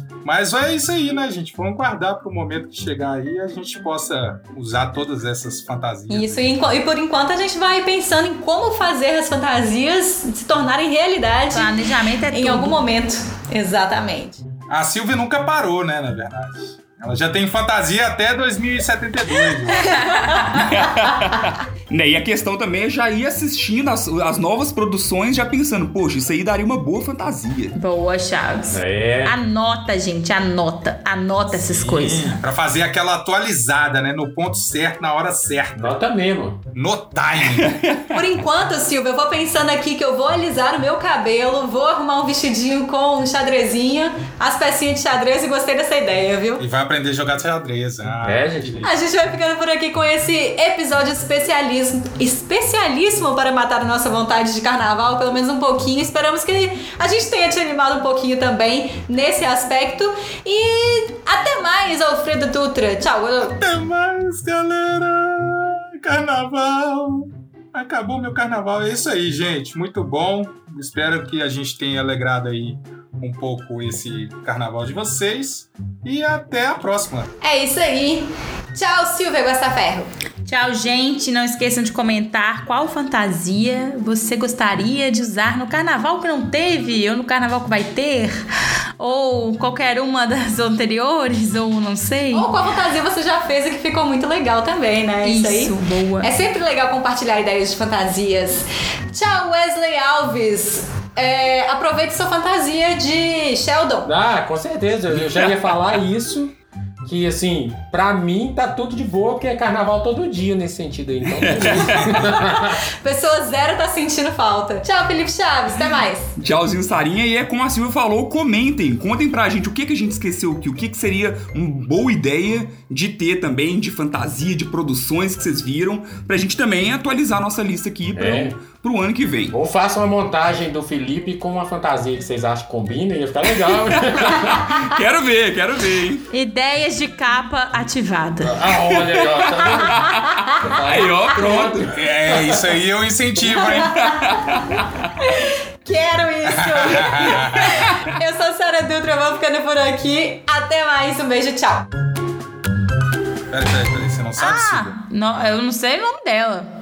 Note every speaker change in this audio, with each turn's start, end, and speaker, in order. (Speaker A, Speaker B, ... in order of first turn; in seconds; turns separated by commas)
Speaker A: 0.2-6.5, Speaker B: 6.1-11.8, Speaker C: 11.5-12.8, Speaker B: 12.3-14.4, Speaker A: 14.7-20.0, Speaker C: 19.8-20.7, Speaker B: 19.9-20.6, Speaker D: 20.5-27.8, Speaker C: 27.7-32.4, Speaker E: 28.7-29.3, Speaker E: 31.5-32.4, Speaker A: 32.4-35.9, Speaker E: 35.7-36.6, Speaker A: 36.7-37.8, Speaker D: 37.4-38.0, Speaker B: 38.1-46.6, Speaker A: 46.6-48.9, Speaker E: 48.2-48.9, Speaker B: 48.8-63.6, Speaker A: 63.4-77.3, Speaker B: 77.4-80.1, Speaker C: 80.4-88.4, Speaker C: 89.0-92.5, Speaker B: 92.3-104.1, Speaker C: 95.2-96.3, Speaker E: 104.0-112.8, Speaker D: 111.4-112.1, Speaker B: 113.0-116.3, Speaker D: 116.3-129.6, Speaker E: 128.1-128.6, Speaker E: 129.5-134.8, Speaker D: 133.7-136.3, Speaker C: 136.3-138.7, Speaker E: 138.4-141.9, Speaker D: 139.1-141.9, Speaker A: 141.9-144.2, Speaker B: 143.7-144.1, Speaker D: 143.9-145.0, Speaker B: 145.2-151.9, Speaker A: 146.5-148.0, Speaker A: 153.5-154.9, Speaker C: 154.4-156.7